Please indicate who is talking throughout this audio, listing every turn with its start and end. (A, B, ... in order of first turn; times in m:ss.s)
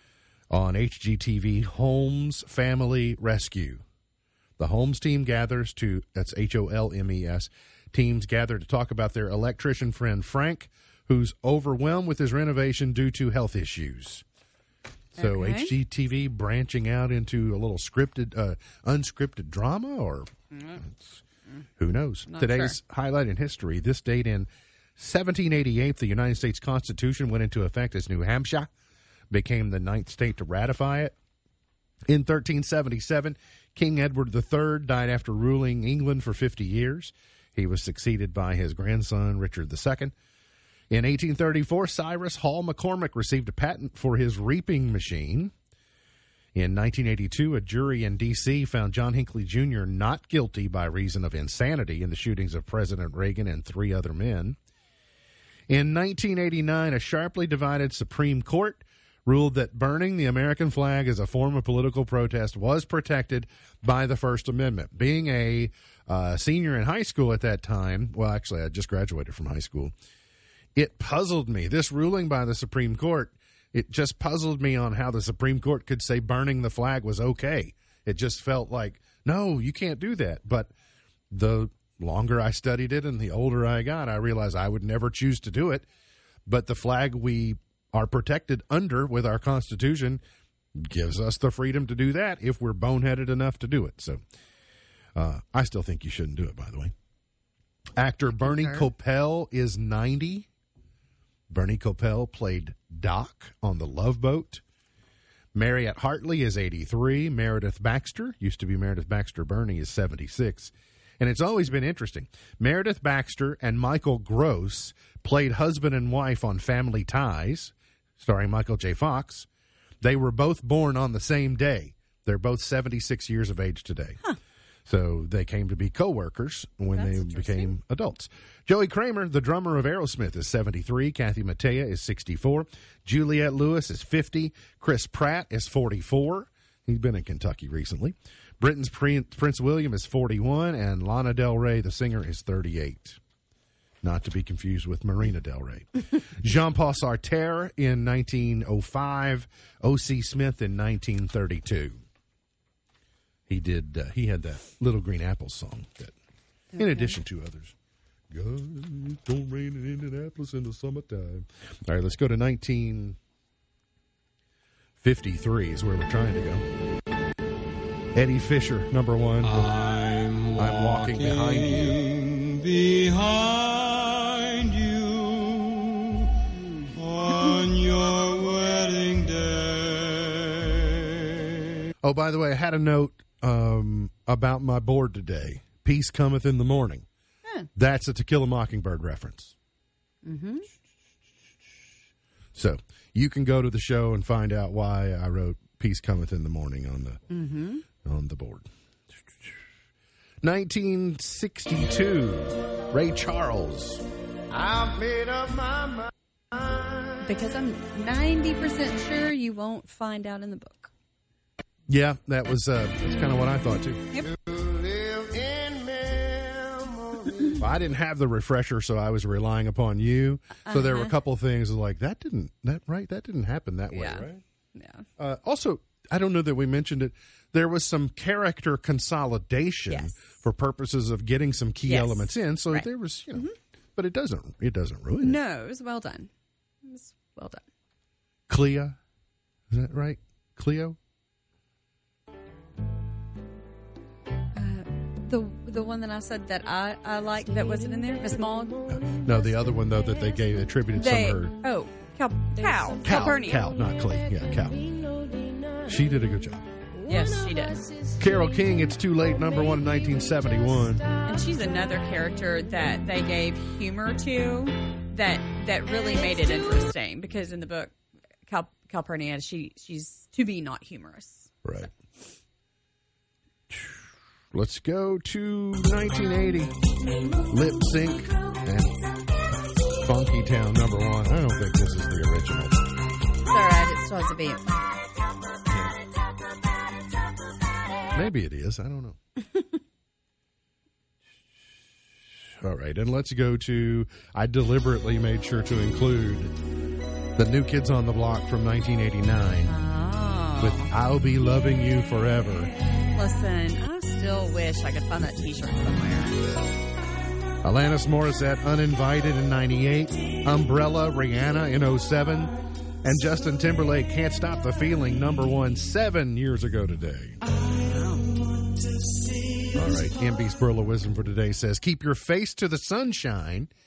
0:00.5-0:03.8 A
0:04.6-0:14.2 A
0:15.1-0:21.2 A
0:15.2-0:15.7 B
0:20.5-0:20.8 B
0:21.8-0:28.7 A
0:22.3-0:22.8 B
0:29.3-0:31.2 A
0:32.1-0:40.1 A
0:40.9-0:45.5 A
0:46.6-0:54.6 A
0:55.7-1:09.9 A
1:10.8-1:20.7 A
1:21.3-1:25.9 A
1:26.5-1:30.2 A
1:30.8-1:34.2 A
1:35.2-1:36.9 A
1:38.0-1:40.5 A
1:38.4-1:38.9 B
1:41.5-1:44.6 A
1:45.6-1:59.5 A
2:00.0-2:04.2 A
2:04.9-2:23.2 A
2:06.9-2:07.7 B
2:24.0-2:32.0 A
2:33.5-2:36.2 A
2:36.7-2:37.2 B
2:36.8-2:37.8 A
2:38.3-2:43.2 A
2:45.0-2:46.6 A
2:48.2-2:49.7 A
2:49.4-2:56.3 C
2:50.6-2:52.0 A
2:56.6-2:56.9 B
2:56.9-3:01.5 C
3:02.0-3:07.1 A
3:07.8-3:09.6 A
3:10.2-3:10.6 B
3:12.6-3:17.2 A
3:17.3-3:17.8 B
3:18.0-3:18.7 A
3:20.4-3:26.1 A
3:26.6-3:27.1 A
3:27.2-3:30.9 B
3:31.9-3:36.4 A
3:37.5-3:44.4 A
3:40.7-3:41.1 B
3:43.9-3:45.0 B
3:45.2-3:55.4 A
3:49.9-3:50.2 B
3:51.8-3:53.5 B
3:55.2-3:56.3 B
3:56.8-3:57.6 B
3:58.5-3:59.0 A
3:59.7-4:01.0 A
4:04.5-4:08.8 B
4:08.9-4:11.6 A
4:10.9-4:13.7 B
4:13.0-4:14.8 A
4:15.8-4:16.7 A
4:17.0-4:17.8 B
4:18.2-4:21.1 A
4:21.2-4:28.0 B
4:28.5-4:31.5 B
4:31.6-4:31.9 A
4:33.7-4:36.8 A
4:37.5-4:39.1 A
4:40.0-4:42.9 A
4:43.4-4:44.9 B
4:48.1-4:49.2 A
4:52.6-4:56.6 A
4:57.4-4:59.7 A
4:59.7-5:00.9 B
5:00.6-5:02.7 A
5:03.2-5:06.5 B
5:07.6-5:17.4 A
5:17.8-5:18.3 B
5:19.7-5:23.7 A